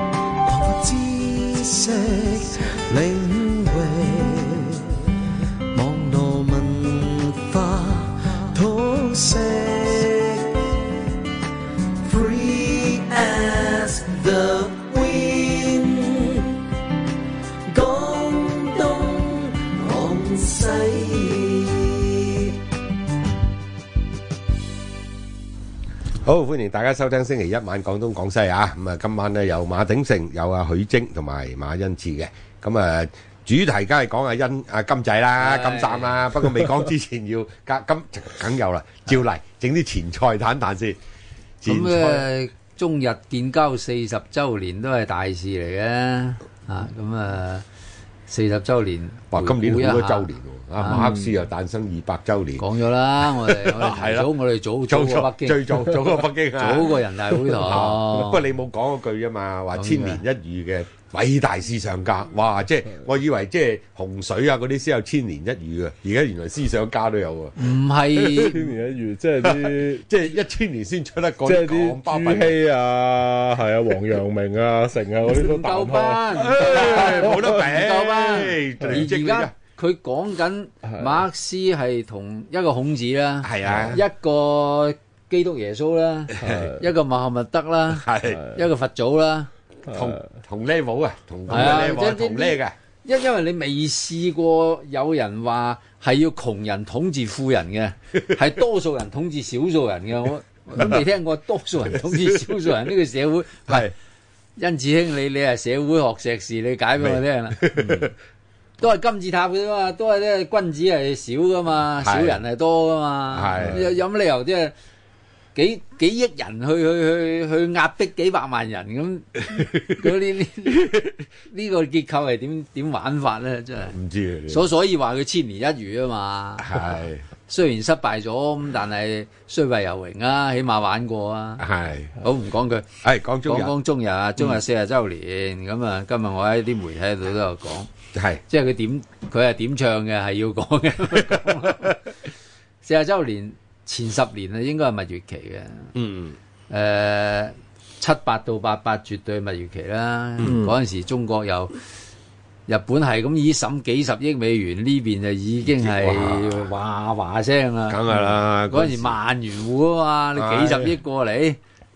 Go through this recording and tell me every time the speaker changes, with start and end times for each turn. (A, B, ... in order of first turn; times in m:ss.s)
0:00.4-0:05.1 A
0:05.7-0:10.8 A
0:12.0-0:16.6 A
0:17.7-0:22.6 A
0:26.2-0:41.0 B
0:35.4-0:36.4 C
0:41.6-0:42.3 B
0:41.6-0:47.6 C
0:48.3-0:51.1 C
0:49.3-0:52.6 B
0:52.6-0:55.9 C
0:53.2-0:54.3 B
0:54.9-1:07.6 B
0:56.6-0:58.4 C
0:59.7-1:00.2 C
1:07.6-1:08.7 C
1:08.1-1:08.6 B
1:08.4-1:10.0 D
1:09.4-1:12.6 B
1:11.4-1:17.6 D
1:15.2-1:29.5 C
1:16.3-1:19.5 B
1:23.4-1:24.0 B
1:26.3-1:26.7 B
1:27.9-1:28.4 B
1:29.9-1:32.7 B
1:31.5-1:43.9 C
1:41.9-1:42.7 B
1:44.6-1:48.1 C
1:47.0-1:48.1 B
1:48.8-1:54.7 C
1:52.0-1:52.4 B
1:53.3-1:53.9 B
1:55.5-2:06.8 C
2:03.9-2:04.7 B
2:06.6-2:07.2 B
2:07.5-2:11.6 C
2:11.6-2:12.1 B
2:12.2-2:12.9 C
2:13.0-2:13.7 B
2:13.4-2:17.9 C
2:18.1-2:18.4 B
2:18.5-2:22.1 C
2:22.8-2:25.9 C
2:25.9-2:26.3 B
2:26.7-2:31.7 C
2:32.7-2:41.6 C
2:35.6-2:36.7 B
2:37.9-2:39.2 B
2:40.4-2:41.0 B